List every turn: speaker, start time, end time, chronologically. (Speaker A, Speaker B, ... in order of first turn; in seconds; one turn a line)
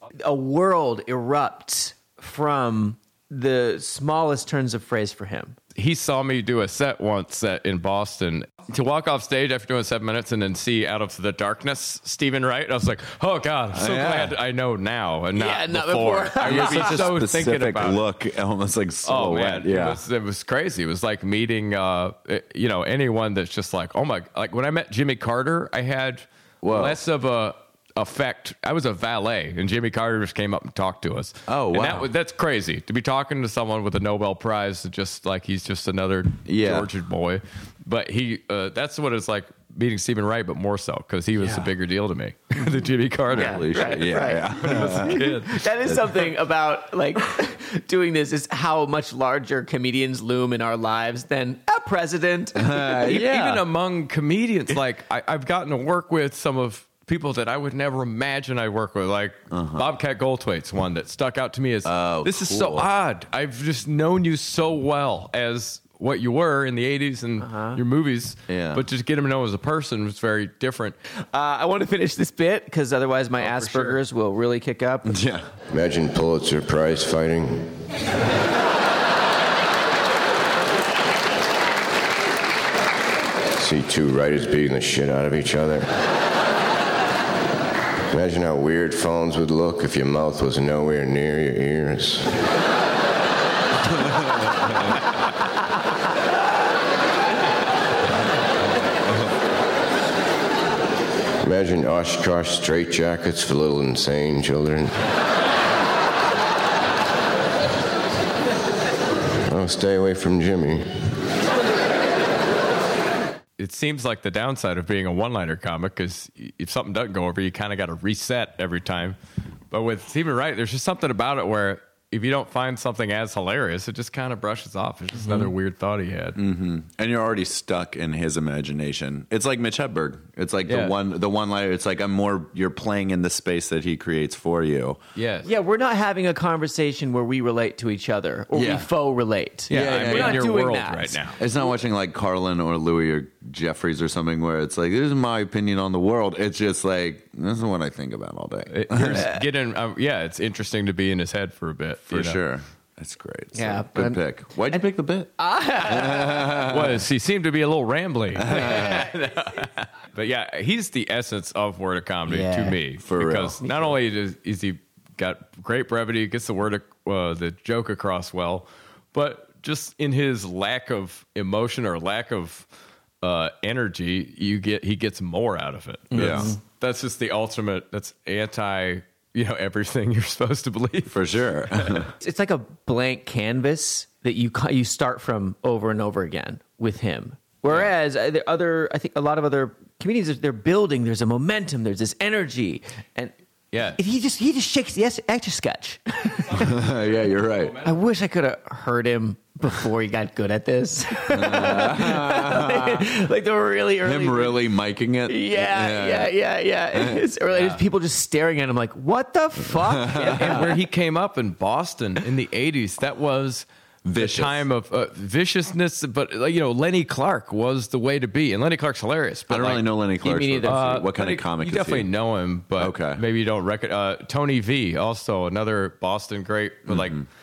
Speaker A: 0.2-5.6
Speaker B: 5.8-18.0
Speaker C: 13.7-14.4
Speaker A: 15.4-17.1
Speaker C: 16.4-20.0
Speaker B: 19.1-45.7
Speaker C: 26.6-27.0
Speaker C: 31.5-32.1
Speaker C: 36.5-36.9
Speaker C: 41.4-41.7
Speaker C: 43.3-45.3
Speaker A: 43.3-53.3
Speaker C: 45.9-46.1
Speaker C: 52.6-53.6
Speaker B: 53.1-71.0
Speaker C: 59.5-59.9
Speaker C: 61.9-62.9
Speaker A: 67.4-67.8
Speaker C: 68.5-68.8
Speaker A: 71.3-75.2
Speaker B: 73.4-74.0
Speaker C: 75.1-75.5
Speaker D: 75.7-77.8
Speaker D: 83.6-85.9
Speaker D: 88.1-92.4
Speaker D: 101.4-105.0
Speaker D: 109.4-111.2
Speaker B: 113.6-119.2
Speaker B: 119.7-126.4
Speaker C: 126.4-135.0
Speaker B: 130.7-130.9
Speaker B: 135.2-135.5
Speaker A: 135.4-141.3
Speaker C: 138.5-138.9
Speaker C: 139.7-140.5
Speaker B: 139.7-141.4
Speaker C: 141.4-149.3
Speaker B: 148.7-152.4
Speaker C: 152.1-155.3
Speaker A: 153.5-154.2
Speaker A: 155.4-156.7
Speaker C: 155.8-157.0
Speaker B: 156.7-172.7
Speaker C: 158.4-159.1
Speaker C: 162.3-163.6
Speaker B: 173.2-182.1
Speaker C: 176.1-176.5
Speaker A: 176.2-176.6
Speaker C: 181.1-182.1
Speaker A: 182.2-193.3
Speaker B: 193.7-194.0
Speaker A: 193.9-196.7
Speaker C: 196.6-197.8
Speaker A: 197.8-204.6
Speaker C: 201.3-203.1
Speaker C: 204.0-206.3
Speaker A: 205.3-210.7
Speaker C: 206.9-207.2
Speaker B: 207.5-207.8
Speaker C: 209.8-210.3
Speaker B: 210.2-219.8
Speaker C: 214.0-214.6
Speaker C: 219.5-222.1
Speaker A: 220.2-220.8
Speaker B: 220.6-227.2
Speaker C: 222.8-223.2
Speaker C: 226.9-227.2